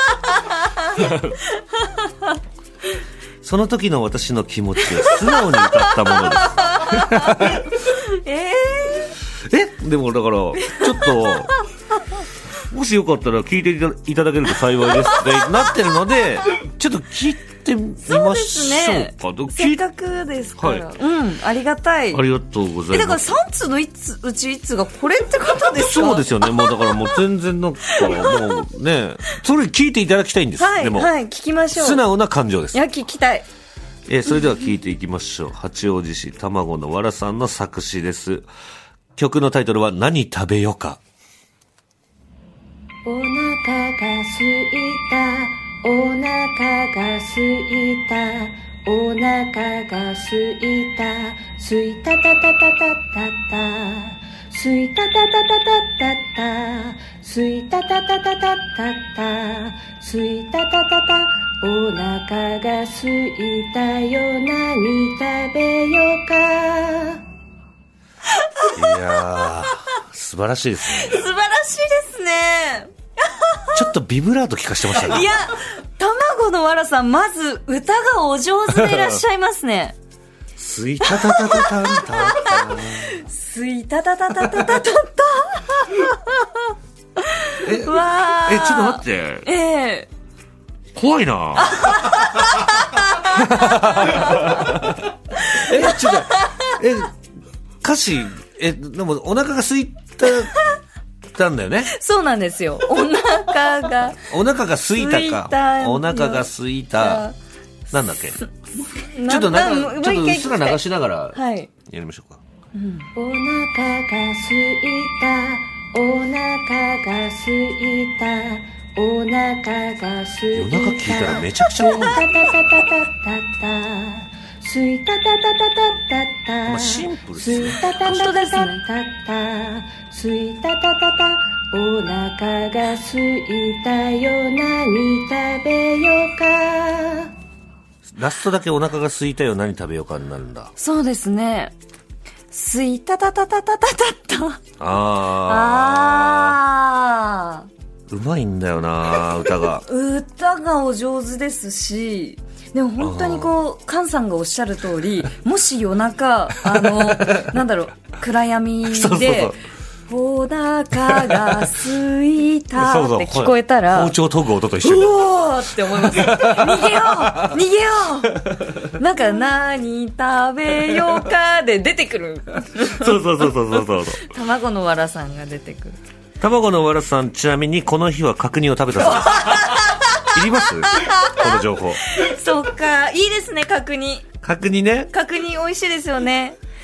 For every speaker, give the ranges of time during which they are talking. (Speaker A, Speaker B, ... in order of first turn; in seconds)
Speaker A: 0.6-1.1, 5.0-9.2, 10.6-11.5, 15.0-15.7, 18.1-22.2, 22.9-27.1, 27.9-28.6, 30.6-32.0, 32.7-33.5, 68.3-69.5, 70.9-73.8, 74.9-80.0, 81.0-86.6, 87.2-90.1, 91.6-94.8, 95.4-96.8, 101.9-104.2, 105.0-107.3, 108.8-110.8, 111.3-111.7, 112.8-113.1, 121.8-122.1, 128.0-128.8, 140.8-141.8, 142.5-144.6, 145.5-147.7, 149.8-159.5, 160.1-164.1, 164.8-173.2, 174.2-176.0, 179.1-181.5, 182.1-184.3, 185.1-186.6
Speaker B: 0.9-1.4, 3.4-7.7, 9.4-11.5, 12.6-19.8, 20.6-20.9, 22.1-23.3, 25.7-31.1, 31.7-32.8, 34.1-38.5, 39.2-41.0, 68.7-71.2, 73.7-75.3, 78.7-79.2, 80.6-83.2, 87.6-89.5, 91.0-92.5, 93.2-97.2, 97.8-100.5, 101.3-101.9, 104.2-107.3, 107.9-108.4, 109.3-112.4, 120.5-122.3, 126.7-128.3, 138.1-140.7, 144.8-146.6, 148.1-149.8, 153.0-153.5, 156.6-157.6, 158.8-159.6, 161.1-161.7, 162.8-165.2, 165.8-167.6, 168.5-168.9, 172.8-174.3, 176.4-182.0, 184.4-185.1
Speaker C: 43.0-67.2, 113.2-137.3